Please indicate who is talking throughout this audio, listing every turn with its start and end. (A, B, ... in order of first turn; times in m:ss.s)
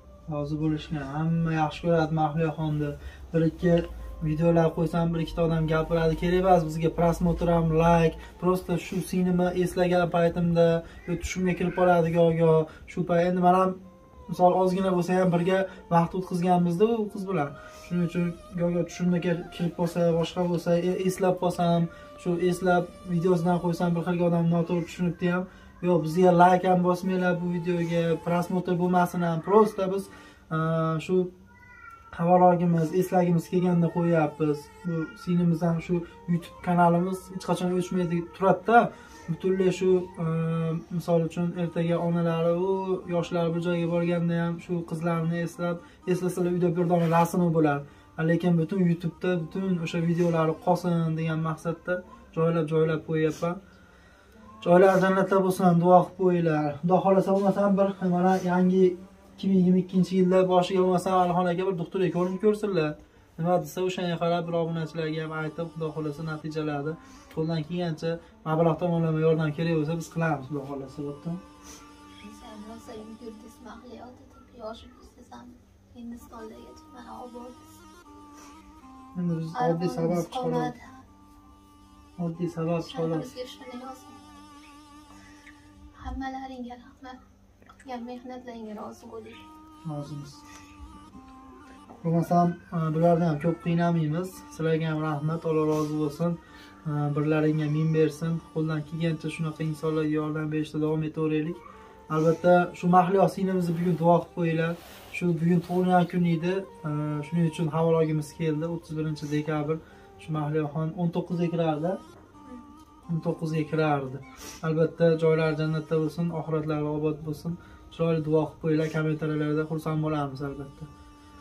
0:00.3-0:31.3 A
0:32.1-0:53.6 A
0:54.6-1:11.4 A
1:12.2-1:17.7 B
1:19.2-1:20.7 A
1:19.6-1:21.0 B
1:22.2-1:23.3 A
1:22.8-1:24.2 B
1:26.0-1:27.2 B
1:27.8-1:29.4 B
1:29.9-1:30.4 A
1:32.0-1:41.6 A
1:42.1-1:52.0 A
1:52.4-1:52.7 B
1:53.1-2:00.9 A